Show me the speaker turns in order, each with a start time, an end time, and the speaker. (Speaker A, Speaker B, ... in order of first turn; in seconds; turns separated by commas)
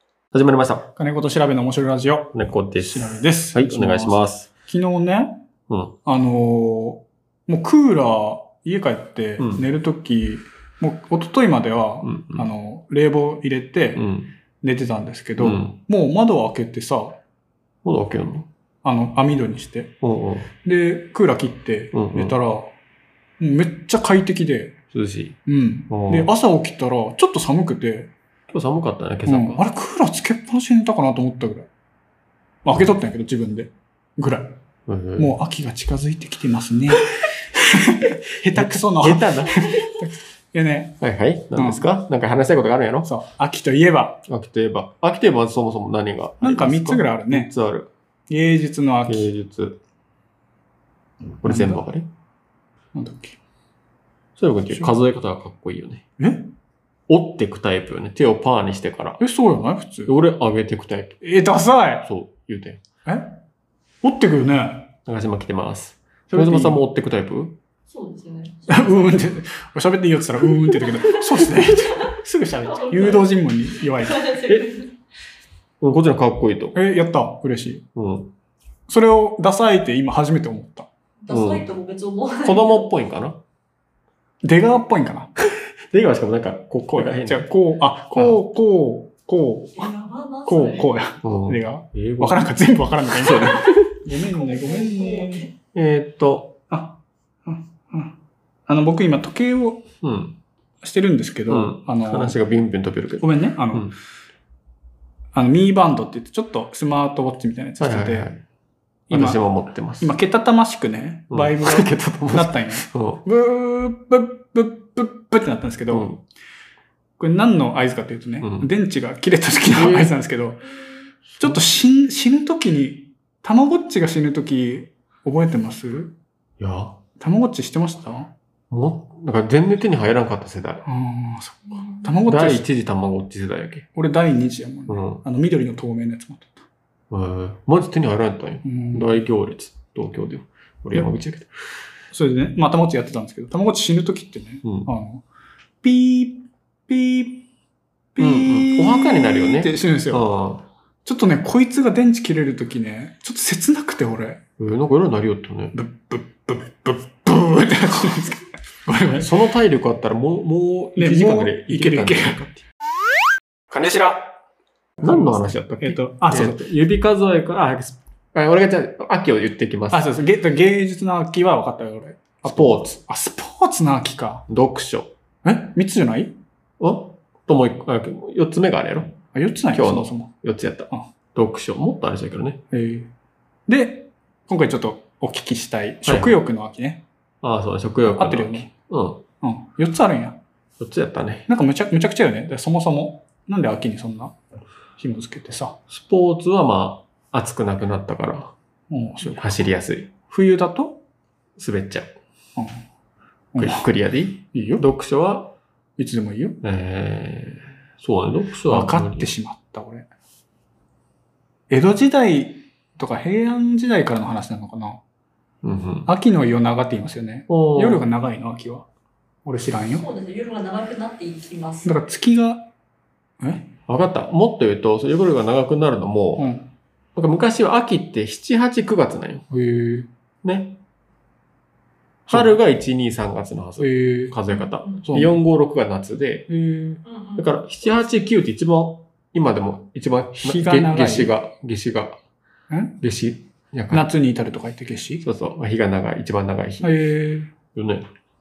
Speaker A: 0.3-0.9, Speaker B: 0.9-5.4, Speaker A: 2.3-4.5, Speaker A: 5.7-6.0, Speaker B: 6.0-14.0, Speaker A: 9.4-9.7, Speaker A: 12.0-12.5, Speaker A: 14.0-14.3, Speaker B: 14.6-17.2, Speaker A: 15.4-15.8, Speaker A: 17.8-18.5, Speaker B: 18.8-19.9, Speaker A: 20.0-20.5, Speaker B: 20.6-22.7, Speaker A: 21.9-22.4, Speaker B: 23.4-24.8, Speaker A: 24.9-25.4, Speaker B: 25.5-28.1, Speaker A: 25.9-26.3, Speaker A: 28.5-29.6, Speaker B: 29.3-31.7, Speaker B: 32.6-34.6, Speaker A: 34.9-35.3, Speaker B: 35.2-41.0, Speaker A: 38.5-39.9, Speaker A: 41.0-43.1, Speaker B: 41.5-41.9, Speaker B: 43.0-44.2, Speaker A: 44.3-47.9, Speaker B: 46.4-47.5, Speaker B: 48.3-49.3, Speaker A: 49.1-49.8, Speaker A: 51.4-52.1, Speaker B: 51.4-51.8, Speaker B: 53.0-53.4, Speaker A: 54.4-56.0, Speaker B: 56.2-56.5, Speaker A: 57.1-59.2, Speaker B: 59.2-60.1, Speaker A: 60.1-61.2, Speaker B: 61.2-62.1, Speaker A: 62.0-62.8, Speaker B: 63.0-63.4, Speaker B: 64.0-64.9, Speaker A: 65.1-67.6, Speaker B: 66.3-66.8, Speaker C: 67.9-69.1, Speaker B: 68.7-74.4, Speaker C: 72.7-73.3, Speaker C: 73.9-74.9, Speaker A: 75.8-76.8, Speaker B: 76.8-77.9, Speaker A: 78.0-78.3, Speaker B: 78.9-80.9, Speaker C: 81.2-82.9, Speaker A: 81.3-81.7, Speaker A: 82.4-83.4, Speaker B: 84.4-85.3, Speaker A: 85.9-87.5, Speaker B: 86.9-89.9, Speaker A: 88.2-88.4, Speaker C: 89.8-90.9, Speaker B: 90.5-95.5, Speaker A: 91.2-92.5, Speaker A: 93.2-94.0, Speaker C: 94.4-95.4, Speaker A: 95.7-96.6, Speaker B: 96.7-98.2, Speaker B: 98.7-99.9, Speaker A: 100.0-100.4, Speaker B: 100.8-102.4, Speaker A: 101.5-104.0, Speaker B: 103.2-103.9, Speaker B: 105.3-108.3, Speaker A: 107.8-108.4, Speaker B: 109.1-109.4, Speaker A: 109.1-110.1, Speaker B: 110.0-116.1, Speaker A: 111.3-113.2, Speaker A: 115.9-116.2, Speaker B: 117.2-120.7, Speaker A: 118.4-118.7, Speaker A: 119.7-120.2, Speaker B: 121.4-126.2, Speaker A: 126.6-127.0, Speaker B: 127.2-128.3, Speaker A: 128.7-130.8, Speaker B: 130.8-132.7, Speaker C: 131.7-132.2, Speaker A: 132.3-133.9, Speaker B: 133.9-136.6, Speaker A: 134.9-135.2, Speaker A: 137.1-141.5, Speaker B: 138.6-139.2, Speaker B: 142.1-145.2, Speaker A: 144.6-144.9, Speaker B: 145.8-147.5, Speaker B: 148.2-150.3, Speaker A: 148.2-150.7, Speaker B: 151.1-154.4, Speaker A: 154.6-155.8, Speaker B: 155.7-159.3, Speaker A: 159.2-162.6, Speaker B: 161.0-162.4, Speaker A: 163.7-164.2, Speaker B: 165.0-166.7, Speaker A: 165.0-170.1, Speaker B: 169.9-174.4, Speaker A: 172.4-172.9, Speaker A: 174.5-175.1, Speaker B: 175.4-176.4, Speaker A: 176.8-179.2, Speaker B: 179.3-180.3, Speaker A: 179.7-182.6, Speaker B: 182.7-183.1, Speaker B: 183.7-187.0, Speaker A: 186.1-186.4, Speaker A: 187.4-189.2, Speaker B: 188.0-188.7, Speaker B: 189.4-190.4, Speaker A: 190.8-191.5, Speaker B: 191.5-194.4, Speaker B: 195.0-195.8, Speaker A: 195.9-198.5, Speaker B: 198.9-199.7, Speaker A: 199.2-200.1, Speaker B: 200.2-201.0, Speaker A: 201.6-202.1, Speaker B: 202.6-202.8, Speaker B: 203.5-203.9, Speaker A: 203.6-205.6, Speaker B: 204.5-204.8, Speaker B: 206.0-206.6, Speaker A: 206.6-209.3, Speaker B: 208.7-210.1, Speaker B: 211.7-215.0, Speaker A: 215.6-216.1, Speaker B: 216.1-218.9, Speaker A: 217.5-218.0, Speaker B: 219.4-220.1, Speaker C: 219.9-221.9, Speaker B: 221.8-222.7, Speaker B: 223.4-223.7, Speaker A: 223.9-226.5, Speaker B: 226.4-226.7, Speaker A: 227.2-229.5, Speaker B: 229.5-230.1, Speaker A: 230.4-230.8, Speaker B: 232.3-232.6, Speaker A: 232.3-236.5, Speaker B: 233.8-234.4, Speaker C: 234.7-235.0, Speaker B: 235.1-235.4, Speaker B: 236.5-237.0, Speaker C: 237.1-237.5, Speaker A: 237.4-242.2, Speaker B: 240.4-241.3, Speaker B: 242.7-243.0, Speaker A: 243.0-244.1, Speaker B: 243.9-245.2, Speaker A: 245.2-246.9, Speaker B: 246.8-247.5, Speaker A: 247.7-248.1